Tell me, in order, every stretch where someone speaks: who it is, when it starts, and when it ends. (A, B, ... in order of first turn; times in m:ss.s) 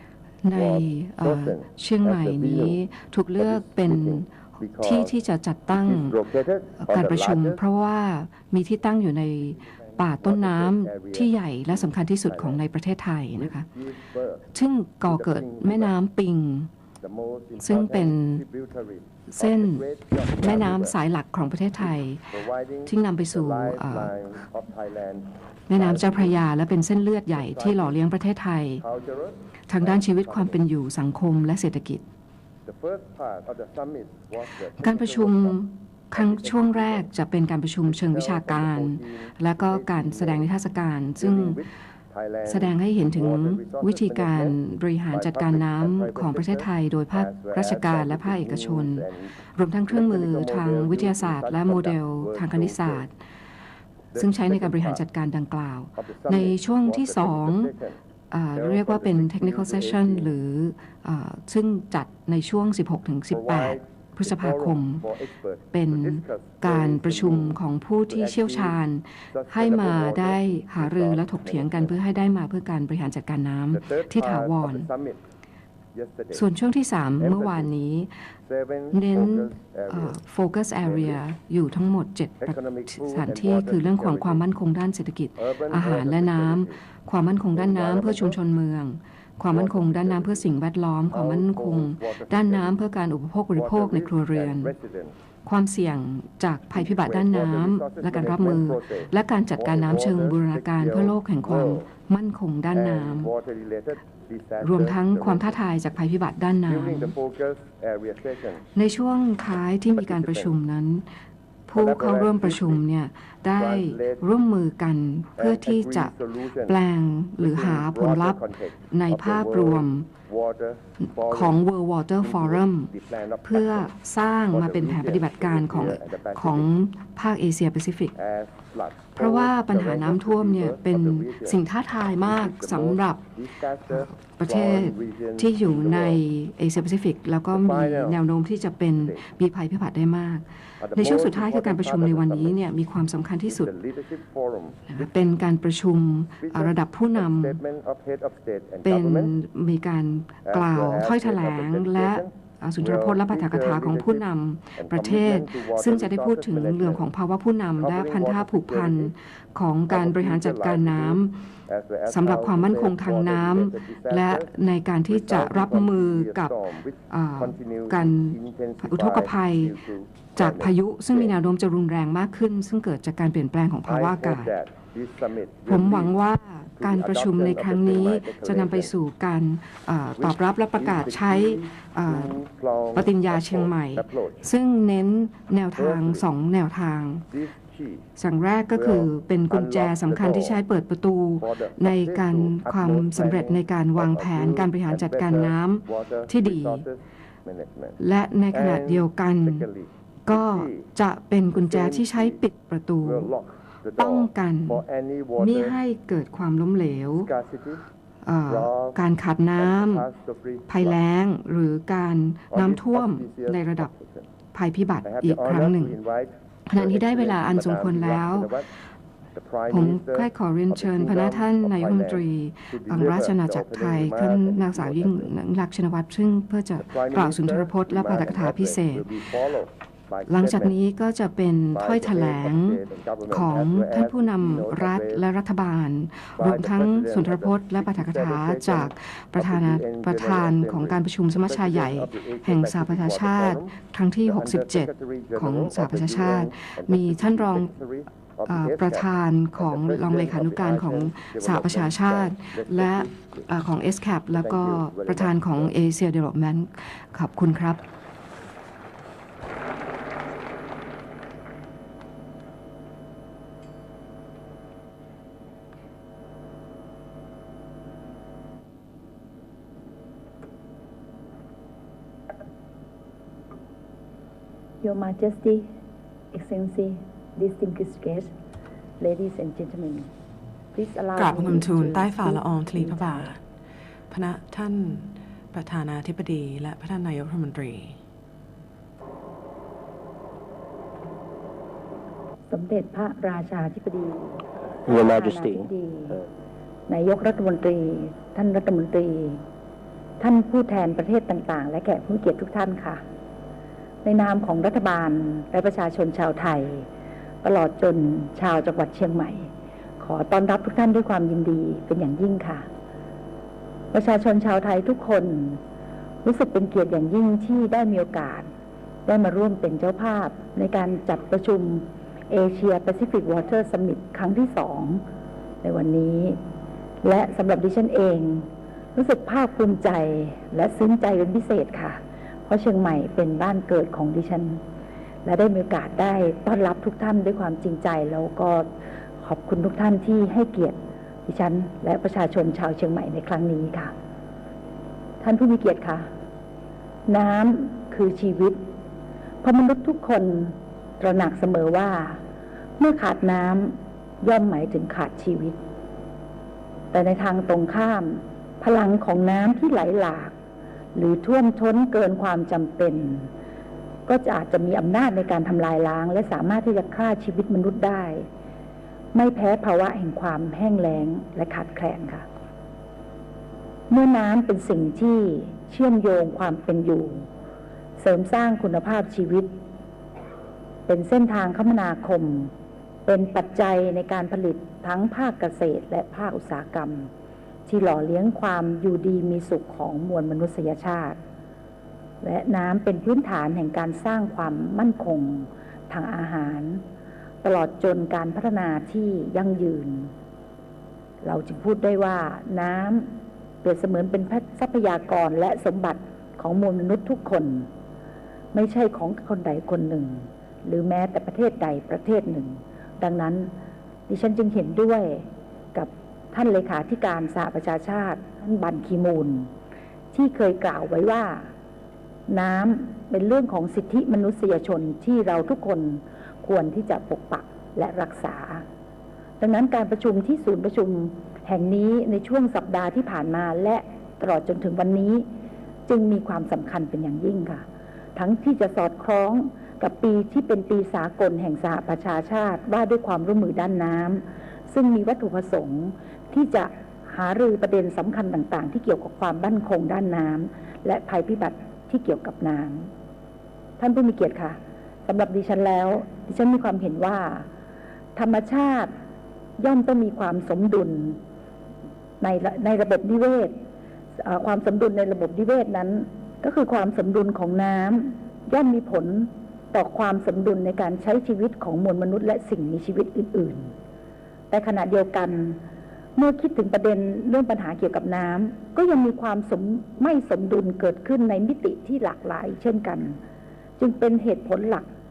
0:00.4-0:06.2 A
0:00.5-0:02.8 B
0:03.4-0:05.1 B
0:05.7-0:07.6 B
0:06.8-0:13.7 A
0:09.5-0:12.6 B
0:13.4-0:14.4 B
0:14.5-0:16.7 A
0:15.0-0:16.0 B
0:17.0-0:21.0 B
0:17.6-0:18.4 A
0:19.3-0:22.3 A
0:21.8-0:26.4 B
0:22.8-0:24.2 A
0:25.7-0:28.8 A
0:27.3-0:28.0 B
0:28.8-0:30.6 B
0:29.7-0:32.0 A
0:32.6-0:35.6 B
0:34.8-0:41.6 A
0:36.1-0:37.1 B
0:37.8-0:40.5 B
0:41.2-0:49.3 B
0:42.4-0:53.1 A
0:49.9-0:53.0 B
0:54.1-0:55.0 B
0:54.1-0:57.7 A
0:56.0-0:58.0 B
0:58.3-1:05.0 A
0:58.5-1:00.3 B
1:03.3-1:08.8 B
1:05.7-1:14.9 A
1:09.3-1:12.0 B
1:13.7-1:15.2 B
1:15.9-1:16.5 B
1:16.3-1:18.1 A
1:17.2-1:17.7 B
1:18.4-1:20.2 B
1:18.9-1:34.7 A
1:20.8-1:21.2 B
1:22.4-1:24.5 B
1:25.4-1:26.8 B
1:27.5-1:28.4 B
1:29.5-1:30.5 B
1:31.1-1:32.8 B
1:33.5-1:35.1 B
1:35.4-1:43.3 A
1:36.7-1:41.9 B
1:42.7-1:45.6 B
1:44.6-1:47.1 A
1:46.6-1:48.6 B
1:48.8-1:51.0 A
1:49.9-1:50.5 B
1:51.7-1:56.1 A
1:51.7-1:52.8 B
1:53.5-1:54.3 B
1:55.4-1:56.8 B
1:56.6-1:58.4 A
1:57.4-2:01.6 B
1:58.9-2:00.0 A
2:01.3-2:02.9 A
2:02.2-2:03.9 B
2:03.4-2:08.1 A
2:04.5-2:06.7 B
2:08.2-2:11.6 B
2:09.1-2:13.2 A
2:12.2-2:16.2 B
2:13.9-2:23.7 A
2:17.5-2:18.2 B
2:19.0-2:19.3 B
2:20.8-2:22.6 B
2:23.4-2:25.1 B
2:24.9-2:27.6 A
2:26.3-2:29.3 B
2:28.8-2:41.4 A
2:30.4-2:37.1 B
2:37.8-2:39.1 B
2:39.9-2:51.3 B
2:42.1-2:46.5 A
2:47.1-2:49.8 A
2:50.4-2:54.5 A
2:53.8-2:56.1 B
2:55.6-3:02.4 A
2:56.8-2:58.9 B
3:00.2-3:04.4 B
3:02.9-3:07.2 A
3:05.8-3:06.2 B
3:07.3-3:08.1 B
3:08.2-3:16.8 A
3:08.7-3:10.6 B
3:11.4-3:18.0 B
3:18.0-3:19.7 A
3:18.5-3:20.9 B
3:20.3-3:23.3 A
3:21.5-3:22.4 B
3:23.0-3:25.8 B
3:24.0-3:24.8 A
3:25.4-3:27.3 A
3:27.1-3:27.8 B
3:28.2-3:30.0 A
3:28.5-3:29.0 B
3:29.6-3:31.0 B
3:30.7-3:33.9 A
3:32.5-3:34.3 B
3:34.5-3:35.9 A
3:35.0-3:38.7 B
3:36.7-3:38.5 A
3:39.3-3:45.3 B
3:39.7-3:49.2 A
3:46.8-3:50.7 B
3:50.3-4:07.7 A
3:51.7-3:55.2 B
3:56.4-4:03.7 B
4:04.2-4:13.5 B
4:08.5-4:17.8 A
4:14.3-4:15.7 B
4:34.8-4:35.7 C
4:36.3-4:38.3 C
4:39.0-4:40.1 C
4:40.7-4:43.3 C
4:41.1-4:43.4 D
4:44.1-4:48.0 D
4:52.5-4:56.2 C
4:56.9-4:59.4 C
5:00.2-5:03.0 C
5:04.0-5:06.9 C
5:07.4-5:12.7 C
5:13.9-5:15.6 C
5:16.2-5:18.5 C
5:19.0-5:25.0 C
5:25.6-5:26.4 C
5:27.0-5:34.6 C
5:35.2-5:38.7 C
5:39.2-5:43.9 C
5:45.2-5:46.1 C
5:47.1-5:48.6 C
5:49.4-5:52.2 C
5:52.8-5:55.6 C
5:56.9-6:00.3 C
6:00.9-6:03.3 C
6:04.1-6:08.3 C
6:09.1-6:12.2 C
6:13.9-6:17.3 C
6:18.0-6:19.5 C
6:20.9-6:22.5 C
6:23.1-6:27.1 C
6:27.6-6:31.2 C
6:32.2-6:36.8 C
6:37.4-6:40.1 C
6:41.2-6:43.1 C
6:43.6-6:47.7 C
6:48.5-6:53.5 C
6:54.1-6:59.5 C
7:00.1-7:01.5 C
7:02.3-7:08.6 C
7:09.4-7:15.3 C
7:15.9-7:17.6 C
7:18.2-7:32.9 C
7:33.8-7:37.5 C
7:38.2-7:38.9 C
7:39.6-7:41.2 C
7:42.2-7:43.6 C
7:44.2-7:53.7 C
7:54.5-7:55.6 C
7:56.2-8:03.2 C
8:03.8-8:04.9 C